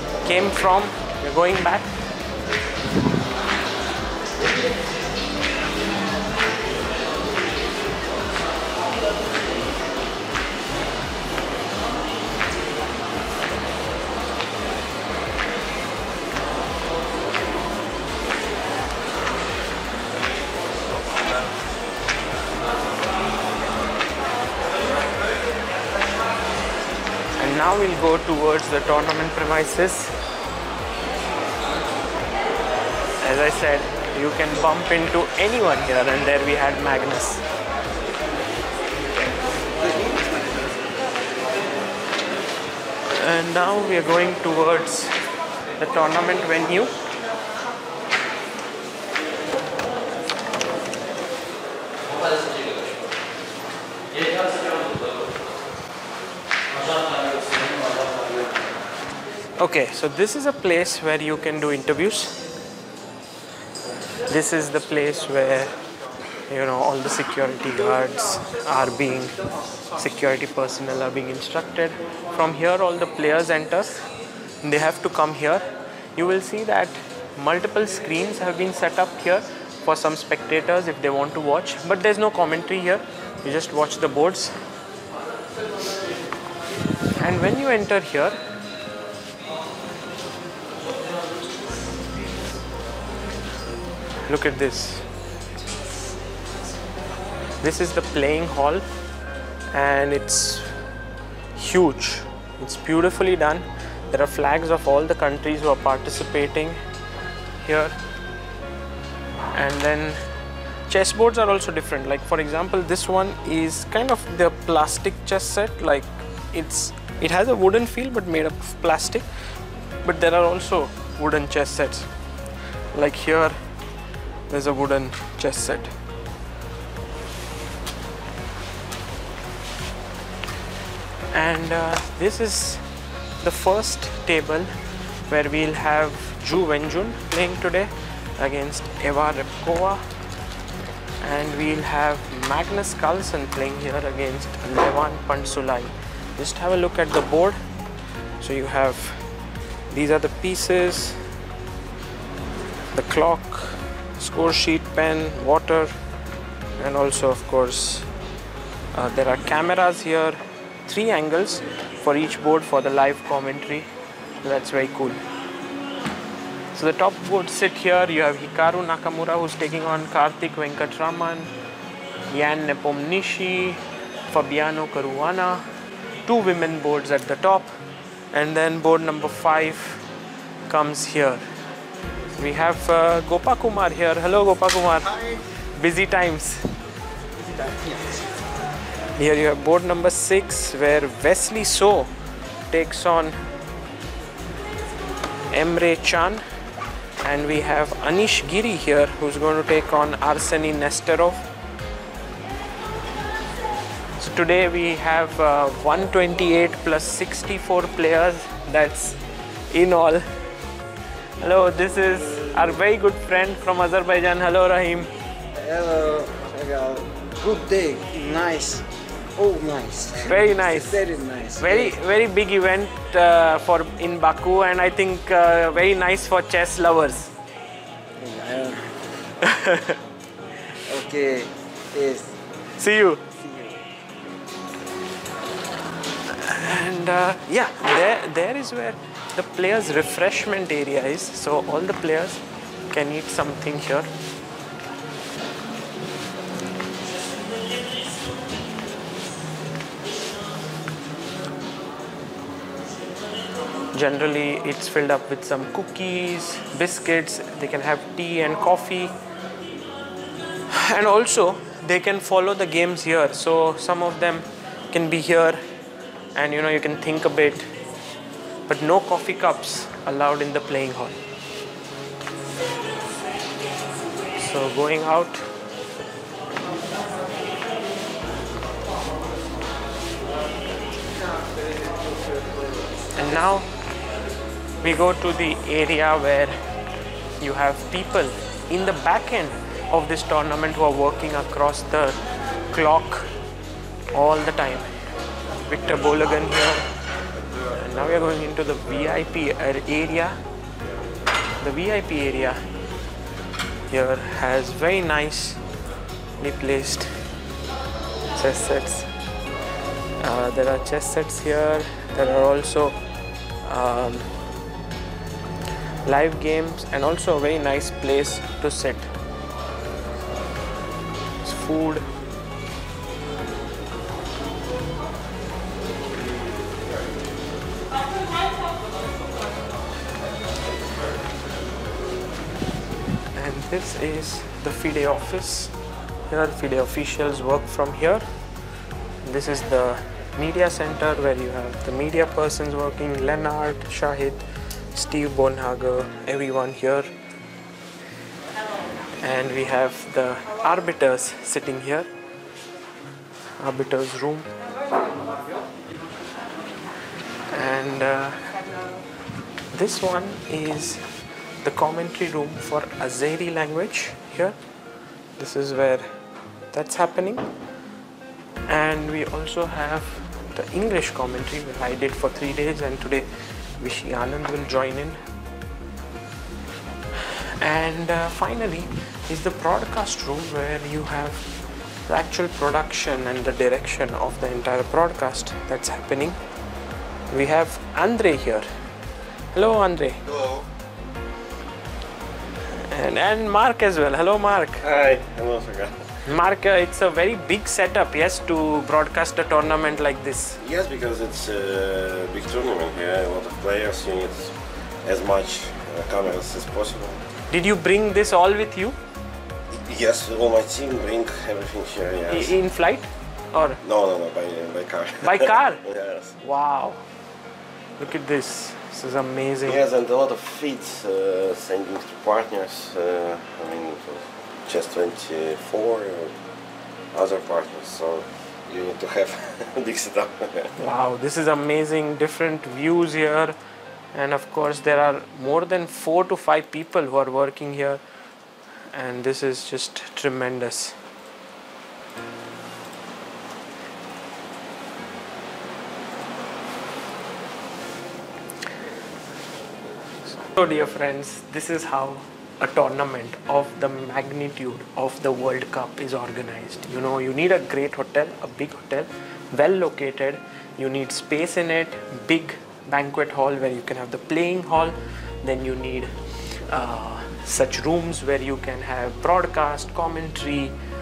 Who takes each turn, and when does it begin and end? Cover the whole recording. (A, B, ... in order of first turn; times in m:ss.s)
0:00.2-0:01.9 A
0:27.4-0:30.1 A
0:33.2-0:37.4 A
0:43.2-0:45.2 A
0:45.8-0:46.9 A
0:59.6-1:02.4 A
1:04.3-1:05.7 A
1:06.5-1:09.3 A
1:09.9-1:14.1 A
1:14.6-1:15.6 A
1:16.2-1:24.6 A
1:27.1-1:28.4 A
1:34.2-1:35.0 A
1:37.6-1:38.8 A
1:39.7-1:40.8 A
1:41.5-1:46.8 A
1:47.6-1:48.0 A
1:49.5-1:50.2 A
1:50.9-1:59.2 A
2:00.0-2:02.1 A
2:02.9-2:03.6 A
2:04.5-2:05.9 A
2:11.3-2:12.8 A
2:13.4-2:14.7 A
2:15.3-2:20.0 A
2:21.2-2:27.6 A
2:28.4-2:29.2 A
2:29.9-2:31.2 A
2:32.9-2:35.9 A
2:36.8-2:38.1 A
2:38.9-2:43.9 A
2:44.4-2:45.2 A
2:46.7-2:51.5 A
2:52.3-2:55.6 A
2:56.2-2:57.7 A
2:58.3-3:00.0 A
3:00.7-3:01.4 A
3:02.4-3:06.6 A
3:07.7-3:08.2 B
3:09.2-3:12.1 A
3:12.7-3:13.4 A
3:15.5-3:16.4 A
3:17.2-3:21.4 A
3:24.2-3:29.2 A
3:29.7-3:30.2 A
3:31.4-3:35.1 A
3:35.6-3:38.8 B
3:39.4-3:41.9 B
3:40.2-3:41.0 A
3:41.6-3:47.3 A
3:48.2-3:48.9 B
3:49.4-3:50.0 A
3:50.8-3:52.3 B
3:52.8-3:53.2 A
3:53.4-3:53.8 B
3:56.2-4:04.1 A
4:13.9-4:19.1 A
4:20.7-4:25.6 A
4:26.3-4:27.7 A
4:28.7-4:31.2 A
4:34.3-4:35.4 A
4:43.1-4:43.7 A
4:44.8-4:46.5 A
4:47.4-4:52.2 A
4:52.7-4:53.3 A
4:54.1-4:54.9 A
4:55.6-4:56.8 A
4:57.7-5:00.4 A
5:01.6-5:02.6 A
5:03.9-5:05.6 A
5:06.4-5:07.1 A
5:08.3-5:09.1 A
5:10.2-5:13.0 A
5:13.6-5:14.3 A
5:16.0-5:19.1 A
5:21.4-5:22.0 A
5:33.3-5:35.7 A
5:36.3-5:38.2 A
5:39.2-5:47.1 A
5:49.2-5:52.1 A
5:53.6-5:54.5 A
5:57.5-5:58.5 A
5:59.7-6:01.0 A
6:01.6-6:04.6 A
6:05.4-6:06.0 A
6:06.7-6:07.5 A
6:08.7-6:13.3 A
6:13.8-6:15.2 A
6:17.2-6:21.5 A
6:22.1-6:26.4 A
6:27.3-6:28.6 A
6:29.5-6:30.2 A
6:30.3-6:30.6 C
6:32.7-6:34.8 A
6:34.8-6:36.1 C
6:36.2-6:40.6 A
6:40.6-6:47.2 C
6:47.5-6:49.0 A
6:49.7-6:52.6 C
6:52.3-6:53.8 A
6:53.8-6:56.4 C
6:55.2-6:55.8 A
6:56.4-6:57.0 A
6:58.0-6:59.8 A
6:59.6-7:06.4 C
7:07.1-7:10.7 C
7:10.8-7:13.5 A
7:14.1-7:18.0 A
7:18.9-7:21.0 A
7:30.4-7:50.7 A